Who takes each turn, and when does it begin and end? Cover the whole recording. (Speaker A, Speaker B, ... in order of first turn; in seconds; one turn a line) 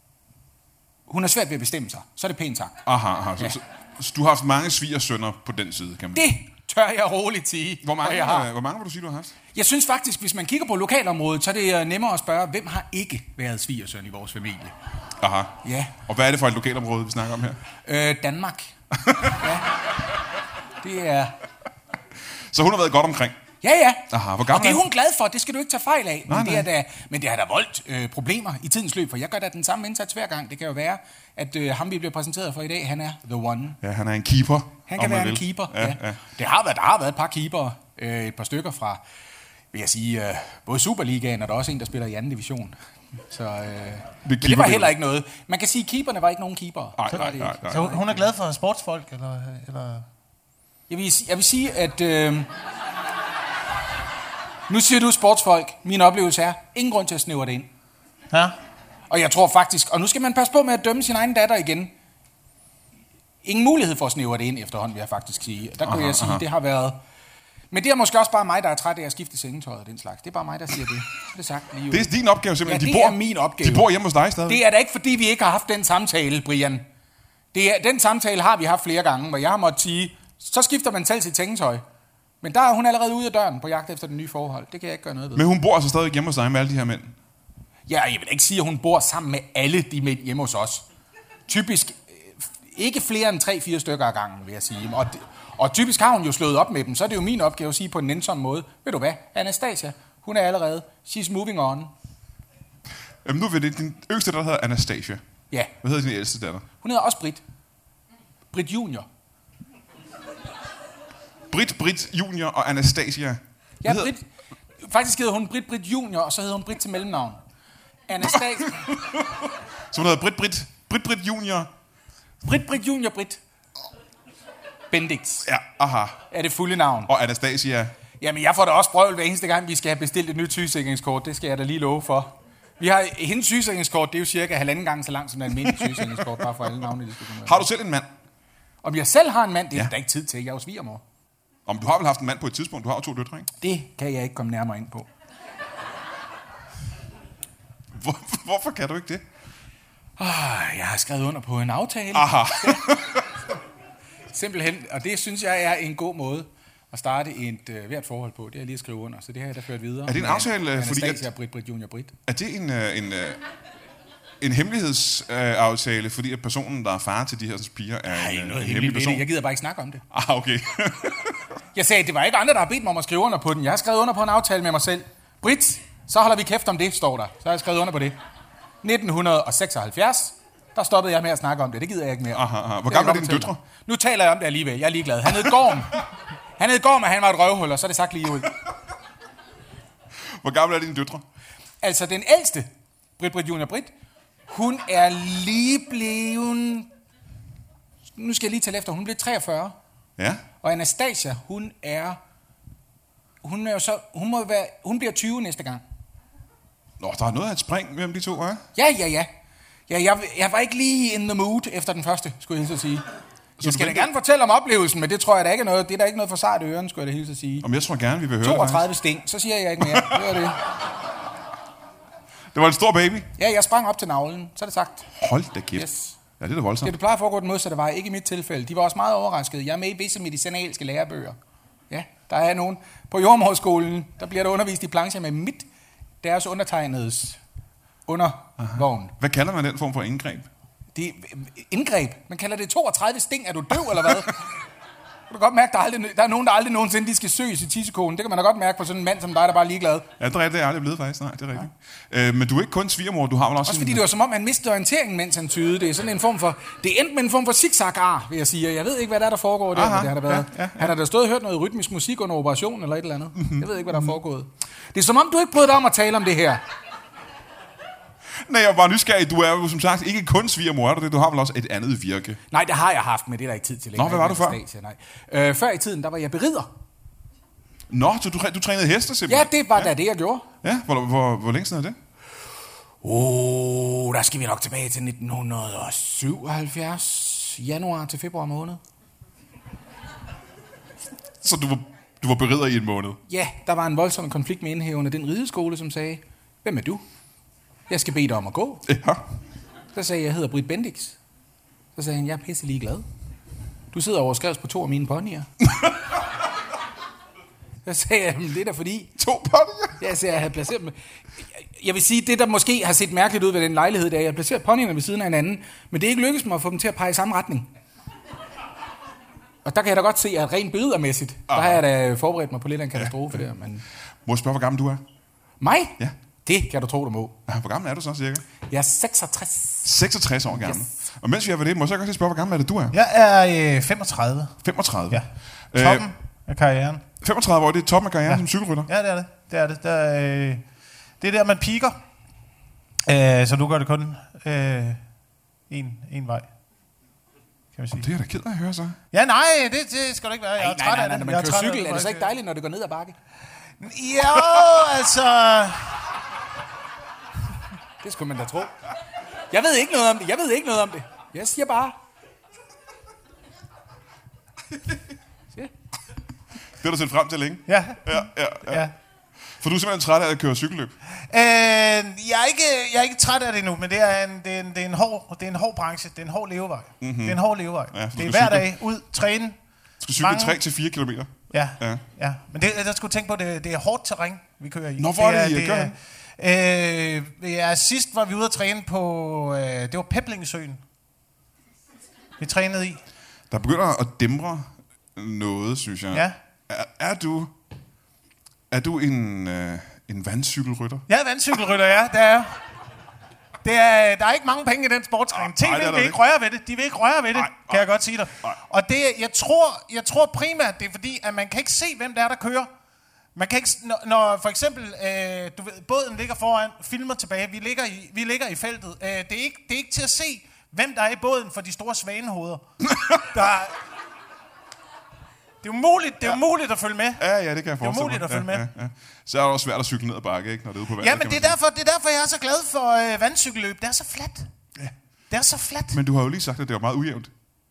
Speaker A: 1.1-2.8
Speaker B: 2.9-6.3
Speaker A: 6.1-8.5
Speaker B: 7.8-9.4
Speaker A: 9.5-14.7
Speaker B: 15.2-17.6
Speaker A: 15.6-16.0
Speaker A: 17.9-19.8
Speaker B: 18.9-19.6
Speaker A: 20.8-21.4
Speaker B: 22.5-23.4
Speaker A: 23.6-33.8
Speaker B: 24.1-24.9
Speaker B: 26.3-26.7
Speaker B: 33.8-36.2
Speaker A: 34.9-39.0
Speaker A: 39.7-42.8
Speaker A: 43.3-48.2
Speaker B: 44.2-45.0
Speaker B: 47.0-48.0
Speaker C: 47.1-50.1
Speaker A: 50.9-52.5
Speaker A: 54.7-57.7
Speaker A: 59.1-61.9
Speaker A: 63.4-67.0
Speaker B: 65.8-66.4
Speaker A: 67.7-72.1
Speaker B: 71.9-74.6
Speaker A: 72.6-73.9
Speaker A: 74.5-76.8
Speaker A: 77.5-81.8
Speaker A: 82.4-85.5
Speaker B: 85.3-87.2
Speaker A: 87.9-90.9
Speaker A: 91.5-101.9
Speaker B: 103.2-105.2
Speaker B: 105.8-106.7
Speaker A: 106.8-107.4
Speaker A: 108.5-109.1
Speaker B: 111.5-114.1
Speaker A: 113.8-114.3
Speaker A: 114.8-117.4
Speaker A: 118.1-118.8
Speaker B: 118.3-121.7
Speaker A: 122.4-123.4
Speaker A: 124.9-125.5
Speaker B: 125.5-126.2
Speaker A: 126.3-127.1
Speaker B: 127.1-127.9
Speaker A: 128.2-137.7
Speaker B: 135.6-136.8
Speaker B: 137.4-138.1
Speaker A: 138.8-141.0
Speaker B: 141.7-143.5
Speaker A: 143.6-145.1
Speaker B: 147.9-149.2
Speaker A: 150.2-153.0
Speaker B: 152.1-153.4
Speaker A: 154.3-162.1
Speaker B: 160.1-161.3
Speaker B: 162.3-163.4
Speaker B: 164.4-169.3
Speaker A: 168.1-170.0
Speaker B: 170.1-171.5
Speaker A: 171.7-178.2
Speaker A: 178.8-188.6
Speaker B: 182.3-183.6
Speaker B: 190.3-191.2
Speaker A: 191.8-193.9
Speaker A: 194.5-196.9
Speaker A: 198.2-199.8
Speaker B: 200.2-200.4
Speaker A: 200.6-202.2
Speaker A: 203.4-205.8
Speaker B: 207.0-208.7
Speaker A: 208.8-209.3
Speaker A: 209.9-213.1
Speaker B: 213.6-214.1
Speaker A: 213.6-217.7
Speaker B: 217.6-218.9
Speaker A: 218.4-220.6
Speaker B: 219.8-220.5
Speaker B: 222.5-223.3
Speaker A: 223.4-225.1
Speaker B: 225.2-225.9
Speaker A: 225.8-226.2
Speaker B: 226.4-226.9
Speaker A: 226.8-231.4
Speaker A: 231.9-235.7
Speaker A: 236.2-237.4
Speaker A: 238.1-239.1
Speaker B: 238.6-240.5
Speaker A: 240.9-244.5
Speaker B: 244.0-244.3
Speaker A: 245.3-250.1
Speaker B: 250.2-254.0
Speaker A: 253.6-266.6
Speaker B: 259.7-260.9
Speaker B: 263.4-264.1
Speaker B: 268.4-272.4
Speaker A: 272.5-276.7
Speaker B: 274.0-274.6
Speaker B: 277.9-279.9
Speaker A: 279.3-280.5
Speaker B: 280.6-282.0
Speaker A: 283.0-288.8
Speaker B: 291.4-293.2
Speaker A: 293.3-297.0
Speaker A: 297.9-298.8
Speaker B: 298.9-299.3
Speaker A: 299.9-301.2
Speaker A: 301.9-303.1
Speaker A: 303.9-305.5
Speaker A: 307.9-309.2
Speaker B: 309.2-310.0
Speaker A: 310.0-317.7
Speaker A: 319.6-323.8
Speaker B: 321.5-321.8
Speaker B: 323.0-323.4
Speaker B: 324.3-325.0
Speaker A: 325.6-327.4
Speaker B: 327.5-328.4
Speaker A: 328.7-329.9
Speaker B: 329.9-333.0
Speaker A: 330.5-330.9
Speaker C: 332.9-334.6
Speaker B: 334.6-336.1
Speaker C: 335.1-337.1
Speaker B: 337.2-338.9
Speaker C: 338.3-340.6
Speaker C: 341.2-342.0
Speaker C: 343.1-345.0
Speaker C: 345.7-346.5
Speaker C: 347.8-348.1
Speaker B: 347.9-349.0
Speaker C: 349.1-352.3
Speaker A: 350.6-353.1
Speaker C: 353.8-356.0
Speaker B: 354.4-354.6
Speaker A: 358.0-358.8
Speaker A: 359.5-362.0
Speaker B: 366.8-368.9
Speaker C: 367.7-368.9
Speaker B: 369.6-370.9
Speaker C: 371.1-379.6
Speaker B: 377.0-377.4
Speaker B: 377.9-378.7
Speaker B: 380.0-382.0
Speaker C: 380.2-380.6
Speaker C: 381.5-390.8
Speaker B: 385.0-385.9
Speaker C: 392.4-393.0
Speaker B: 393.5-397.5
Speaker B: 398.7-401.1
Speaker C: 401.1-402.6
Speaker C: 403.6-412.7
Speaker B: 405.3-406.2
Speaker B: 407.3-407.9
Speaker C: 413.4-423.8
Speaker B: 422.9-423.2
Speaker C: 425.6-427.2
Speaker B: 427.2-431.6
Speaker C: 427.8-428.7
Speaker C: 431.0-434.5
Speaker C: 435.3-436.0
Speaker B: 435.9-437.3